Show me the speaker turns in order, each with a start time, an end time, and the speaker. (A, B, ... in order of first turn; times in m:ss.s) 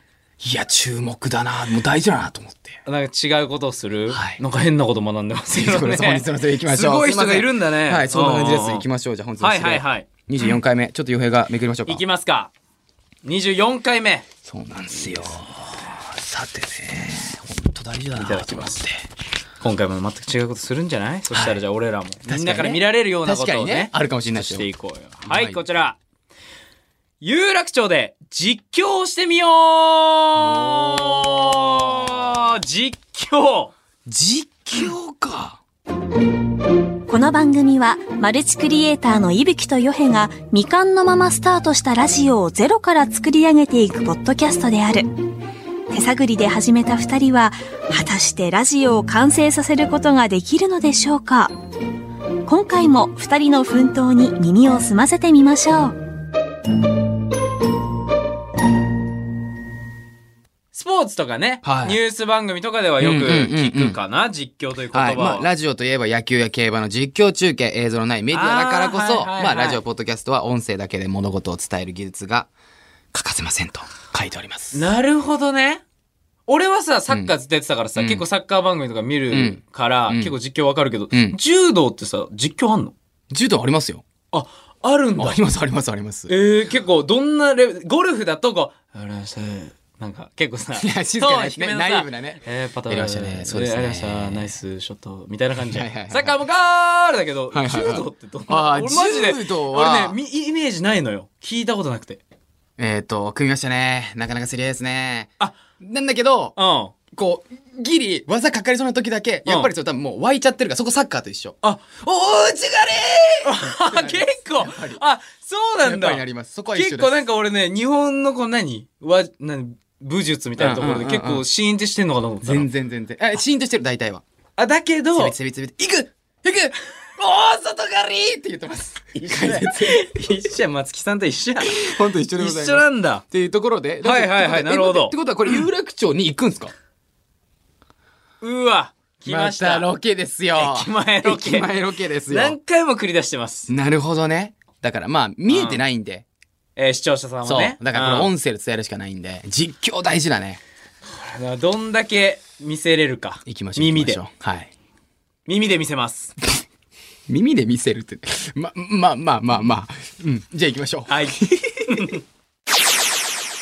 0:00.4-0:02.8 A
0:02.8-0:08.8 B
0:04.1-0:04.4 A
0:05.5-0:12.0 A
0:09.4-0:10.6 B
0:11.9-0:12.5 B
0:13.2-0:14.3 B
0:14.4-0:19.0 A
0:14.9-0:15.4 B
0:18.2-0:18.8 B
0:19.6-0:26.0 B
0:22.3-0:24.7 A
0:25.2-0:25.6 A
0:27.2-0:33.7 B
0:30.4-0:31.8 A
0:34.0-0:35.6 A
0:37.1-0:45.1 C
0:45.9-0:51.5 C
0:52.4-0:55.9 C
1:00.7-1:05.5 B
1:01.6-1:02.0 A
1:03.0-1:04.0 A
1:04.9-1:12.5 A
1:08.3-1:09.8 B
1:13.1-1:14.9 A
1:14.7-1:15.8 B
1:16.5-1:22.9 B
1:18.0-1:18.2 A
1:19.3-1:20.3 A
1:21.1-1:21.4 A
1:23.3-1:24.0 A
1:24.3-1:25.4 B
1:25.2-1:26.3 A
1:26.3-1:42.2 B
1:30.8-1:34.5 A
1:35.7-1:36.4 A
1:37.5-1:40.2 A
1:42.8-1:46.6 A
1:46.6-1:46.9 B
1:47.1-1:55.0 A
1:49.4-1:49.7 B
1:51.6-1:51.9 B
1:53.4-2:02.7 B
1:55.8-1:57.2 A
2:00.6-2:01.4 A
2:02.4-2:04.2 A
2:04.6-2:05.4 B
2:05.1-2:10.3 A
2:09.2-2:13.2 B
2:11.6-2:16.7 A
2:14.0-2:15.6 B
2:18.4-2:19.9 B
2:19.2-2:22.6 A
2:20.5-2:21.7 B
2:22.3-2:23.7 B
2:23.7-2:26.2 A
2:25.5-2:25.8 B
2:26.8-2:28.3 B
2:27.4-2:30.6 A
2:31.0-2:34.2 B
2:33.4-2:34.7 A
2:35.4-2:36.3 B
2:37.3-2:42.2 A
2:41.1-2:42.2 B